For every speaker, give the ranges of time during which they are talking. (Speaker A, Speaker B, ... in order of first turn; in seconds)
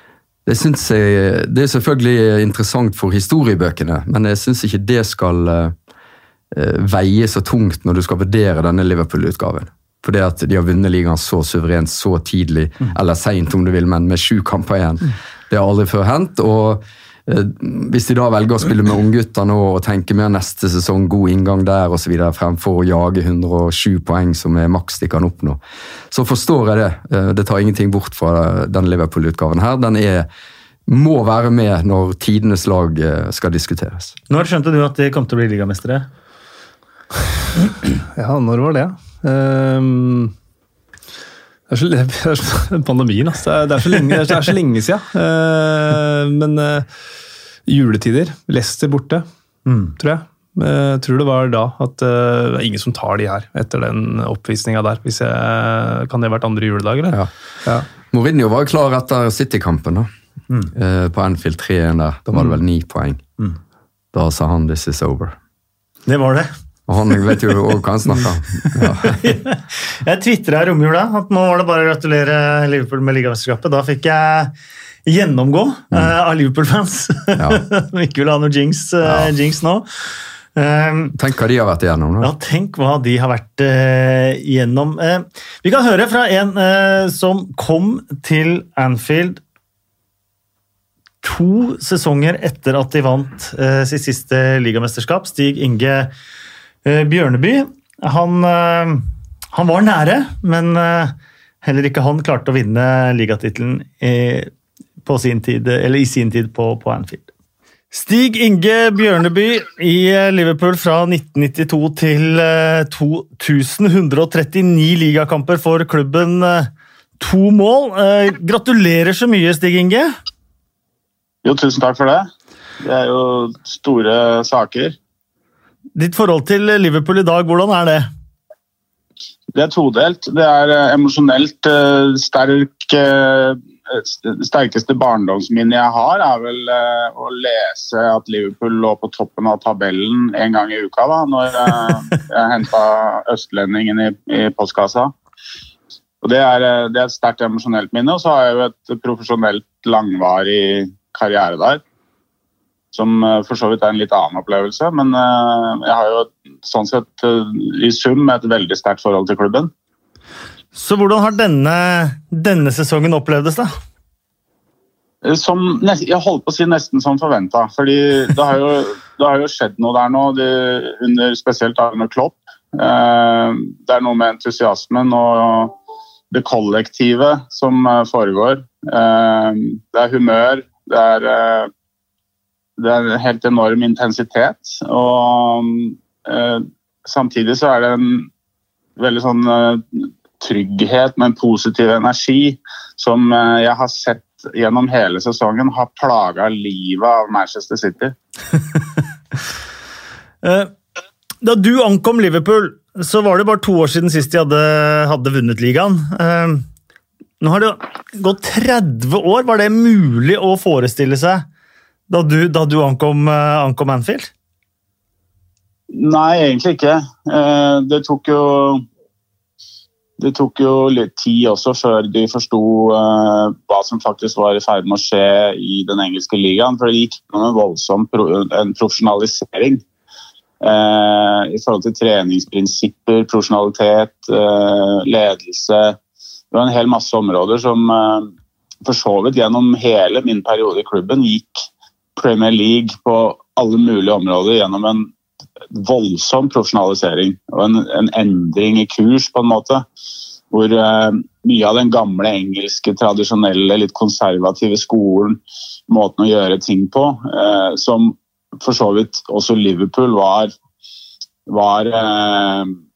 Speaker A: 0.5-5.8, 6.5-25.6, 26.1-30.3, 30.9-34.1, 58.0-60.1, 60.8-63.2, 64.1-65.4, 66.9-69.3, 77.3-77.6, 79.0-79.3, 81.2-82.3
Speaker B: 34.3-36.1, 49.7-50.0, 66.1-66.5, 68.6-74.5, 75.1-79.8, 80.5-81.1, 82.2-89.4, 91.2-96.1, 96.8-104.5, 105.0-107.3, 107.9-120.1, 126.0-128.1, 160.8-163.7, 200.4-200.7, 201.4-206.7, 207.4-211.5, 212.1-214.3
Speaker C: 38.1-40.3, 41.7-46.9, 47.7-49.3, 50.0-57.9
Speaker D: 121.4-122.3, 122.8-125.0, 129.6-145.1, 146.2-151.8, 152.9-159.7, 165.2-175.8, 176.3-181.7, 182.8-188.3, 189.0-198.2, 215.9-218.8, 220.2-229.8, 230.6-236.0, 236.5-238.3, 238.8-241.6, 242.2-245.1, 245.7-249.8, 250.5-260.5, 261.5-262.8